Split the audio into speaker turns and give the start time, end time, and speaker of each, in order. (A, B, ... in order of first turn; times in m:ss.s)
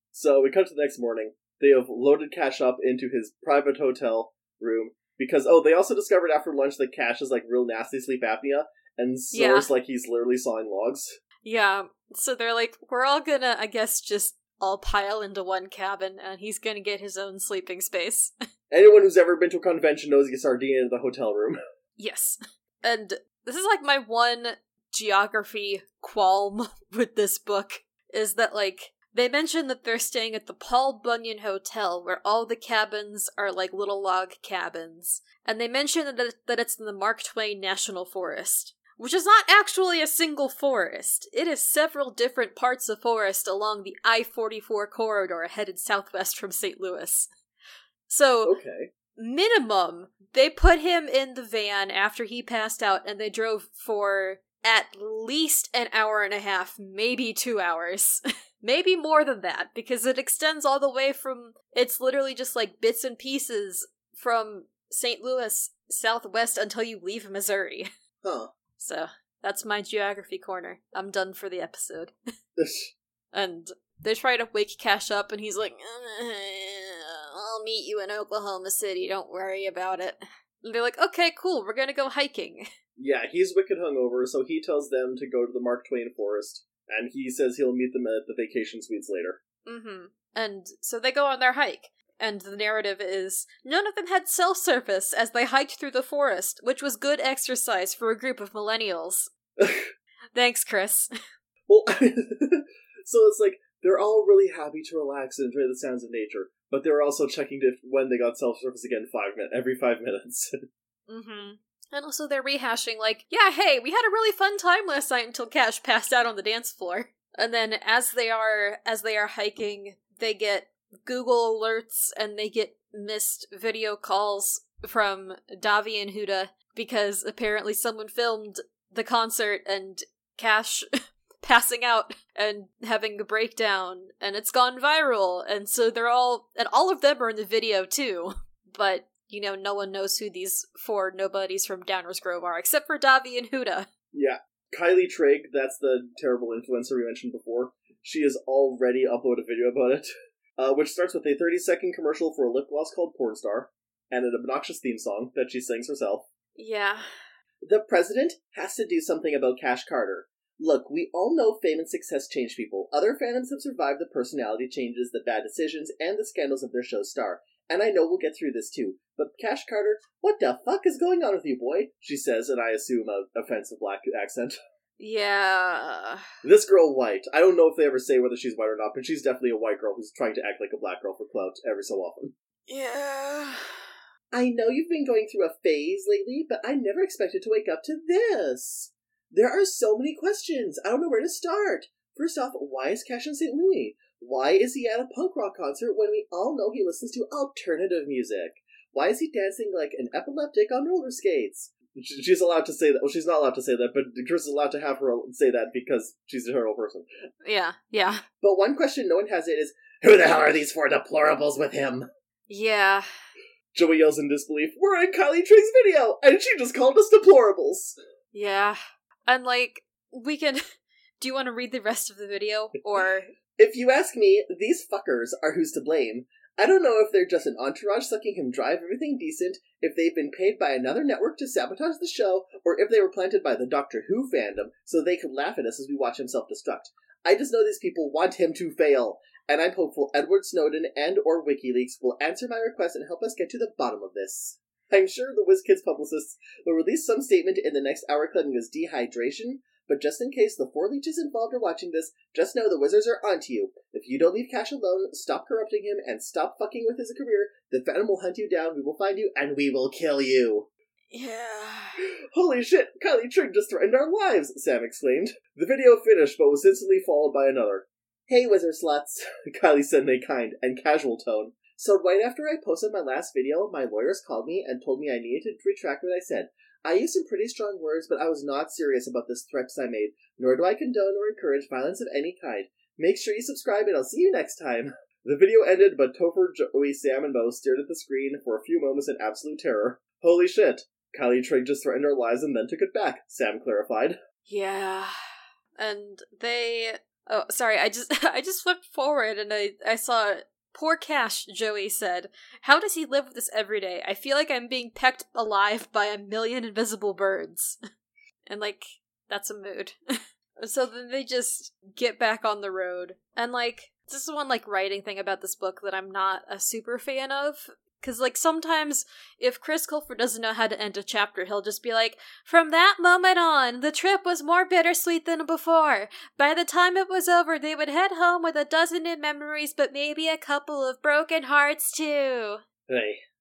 0:00.1-0:11.2 A
0:09.3-0:09.7 B
0:11.4-0:18.3 B
0:18.7-0:21.6 A
0:22.0-0:47.3 B
0:48.1-0:48.5 B
0:48.4-0:48.9 A
0:49.2-1:07.9 B
1:08.2-1:08.5 A
1:08.8-1:12.1 B
1:12.6-1:12.9 A
1:13.3-1:22.6 B
1:23.0-1:29.4 A
1:29.6-1:39.3 B
1:39.6-1:39.9 A
1:40.3-1:41.1 B
1:41.7-1:50.5 A
1:51.1-2:10.8 B
2:11.4-2:23.9 B
2:24.1-2:36.3 A
2:36.6-2:37.1 B
2:37.6-2:54.6 A
2:55.0-2:56.2 B
2:56.4-3:02.3 A
3:02.7-3:03.6 B
3:04.3-3:27.0 A
3:27.4-3:28.2 B
3:28.4-3:32.1 A
3:32.5-3:33.0 B
3:33.7-3:37.9 A
3:38.3-3:40.6 B
3:41.2-3:43.3 B
3:43.6-4:20.7 A
4:21.1-4:22.0 B
4:22.3-4:54.2 A
4:54.4-4:55.1 B
4:55.8-5:07.8 B
5:08.5-5:10.0 B
5:10.6-5:32.6 B
5:32.9-5:33.2 A